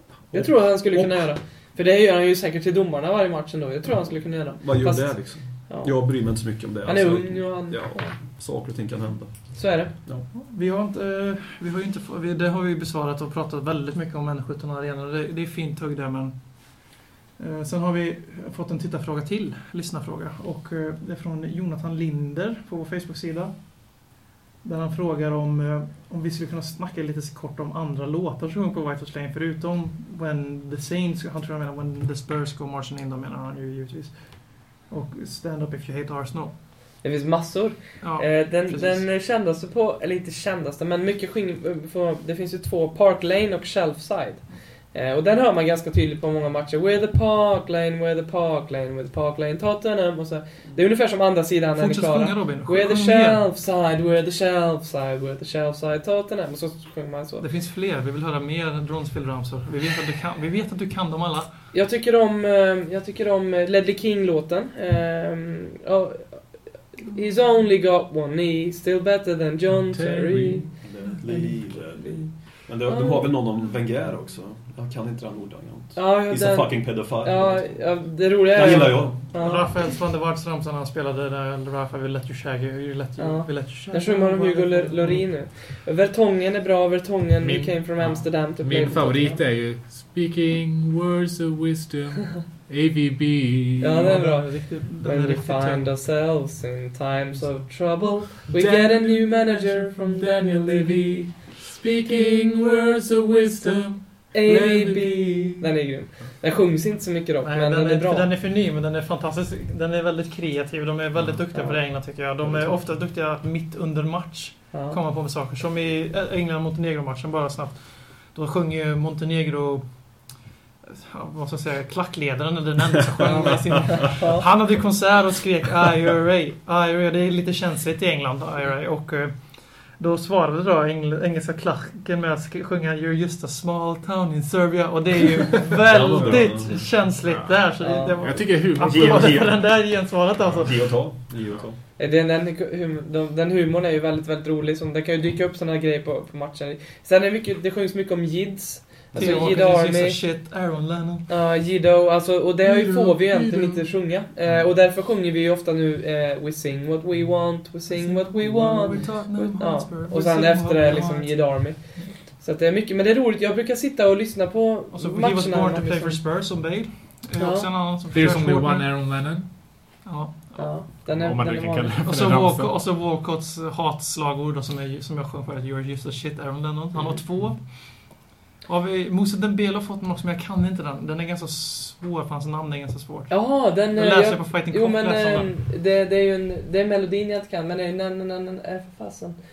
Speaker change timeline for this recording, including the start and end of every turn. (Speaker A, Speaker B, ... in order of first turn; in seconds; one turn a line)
Speaker A: 0.3-1.1
Speaker B: 0.3-5.2
Speaker A: 4.6-9.3
Speaker B: 5.7-6.0
Speaker B: 6.8-8.1
Speaker B: 9.5-9.9
Speaker A: 9.9-10.2
Speaker C: 10.3-16.4
Speaker C: 17.4-23.5
Speaker C: 24.6-34.1
Speaker C: 34.9-36.5
Speaker B: 37.0-57.4
Speaker C: 38.0-39.0
Speaker C: 51.7-53.4
Speaker C: 57.4-61.5
Speaker B: 61.7-66.4
Speaker B: 67.0-70.7
Speaker D: 69.7-70.6
Speaker A: 70.8-79.2
Speaker B: 72.0-72.3
Speaker B: 72.8-73.3
Speaker B: 75.9-79.6
Speaker C: 79.3-85.2
Speaker B: 83.2-89.4
Speaker D: 87.4-94.0
Speaker B: 93.8-101.2
Speaker C: 93.9-95.9
Speaker D: 98.5-105.7
Speaker B: 104.3-108.3
Speaker C: 107.4-117.8
Speaker B: 114.7-115.0
Speaker C: 118.3-119.8
Speaker C: 120.8-129.3
Speaker B: 123.2-124.5
Speaker C: 130.0-140.9
Speaker D: 135.8-136.5
Speaker A: 135.8-136.7
Speaker D: 137.2-137.6
Speaker B: 137.8-138.2
Speaker D: 138.2-139.5
Speaker A: 138.8-139.6
Speaker A: 140.4-141.8
Speaker B: 142.0-150.2
Speaker A: 149.1-149.4
Speaker C: 149.1-151.3
Speaker B: 151.3-166.2
Speaker D: 152.6-153.9
Speaker C: 157.9-162.0
Speaker C: 164.9-168.9
Speaker B: 167.4-167.7
Speaker D: 168.1-169.5
Speaker C: 170.0-170.7
Speaker B: 170.6-171.9
Speaker D: 171.1-172.8
Speaker C: 172.0-177.6
Speaker C: 178.7-183.3
Speaker B: 183.3-189.3
Speaker C: 183.9-185.5